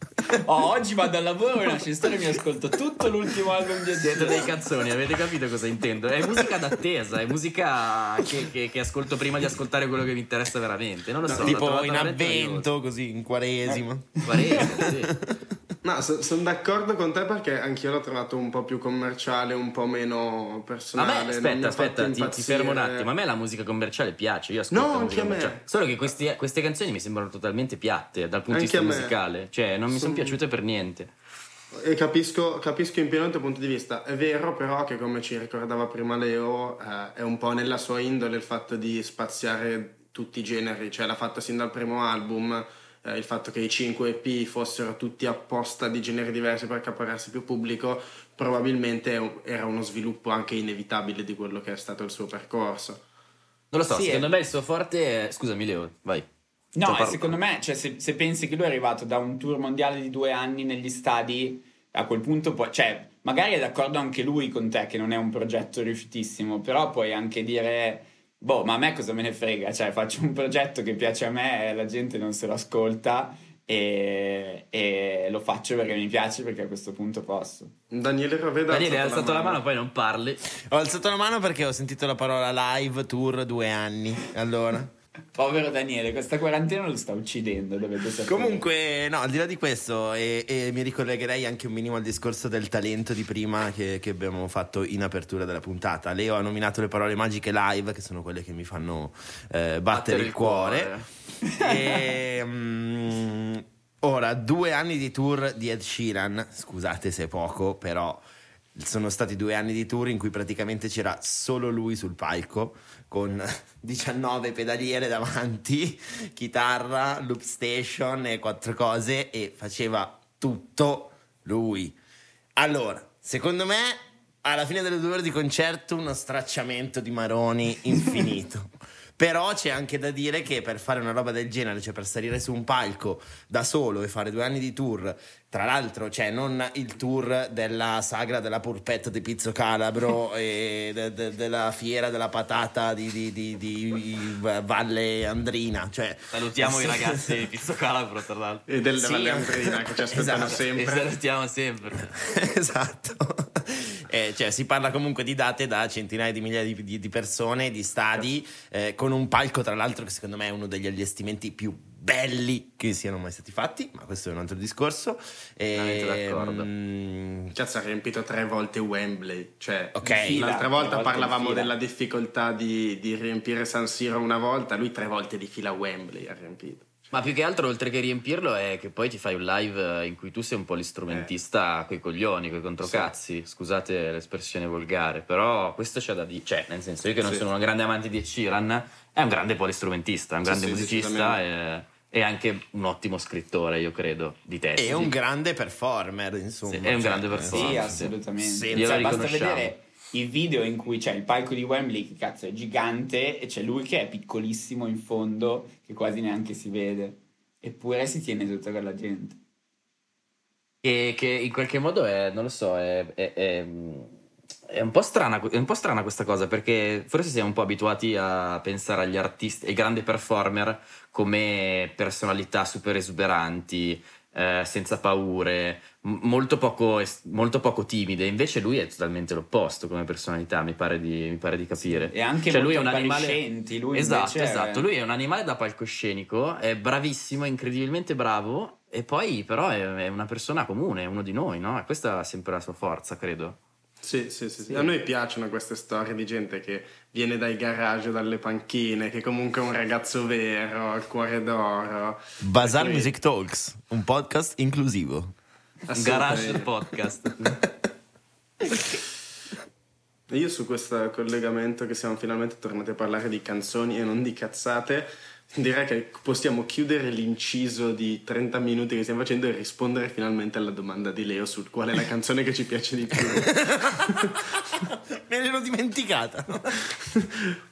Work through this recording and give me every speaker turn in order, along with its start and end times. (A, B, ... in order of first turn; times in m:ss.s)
0:00.3-0:04.5 A
0:04.0-0:12.7 B
0:11.3-0:11.6 C
0:11.4-0:15.5 D
0:13.7-0:14.7 A
0:14.2-0:15.1 B
0:15.8-0:23.1 C
0:21.0-0:31.1 B
0:24.7-0:25.6 C
0:28.5-0:29.2 C
0:29.9-0:30.4 C
0:31.7-0:53.0 C
0:53.7-0:56.3 B
0:53.9-0:54.3 A
0:56.8-1:17.7 A
0:56.8-0:57.4 B
1:17.9-1:19.6 C
1:18.7-1:20.4 B
1:20.5-1:24.9 D
1:25.3-1:28.6 A
1:28.3-1:40.9 D
1:39.9-1:41.1 B
1:41.6-1:48.2 D
1:48.8-2:02.0 D
2:02.6-2:27.4 D
2:26.3-2:28.6 B
2:28.7-2:31.1 C
2:29.0-2:30.6 D
2:30.5-2:32.1 B
2:32.0-2:47.5 D
2:45.8-2:46.7 B
2:47.6-2:57.0 C
2:50.0-2:50.4 D
2:50.0-2:51.7 A
2:57.1-3:15.1 B
3:02.8-3:03.1 C
3:07.2-3:07.5 C
3:10.5-3:11.4 C
3:14.8-3:19.3 D
3:16.7-3:18.1 B
3:17.4-3:29.4 A
3:18.7-3:19.7 B
3:30.8-3:34.2 B
3:34.7-3:53.4 B
3:51.8-3:54.9 A
3:53.9-4:03.6 B
4:04.0-4:13.1 C
4:12.4-4:15.3 D
4:15.9-4:16.7 C
4:16.0-4:17.6 B
4:20.3-4:34.5 C
4:33.3-4:36.9 D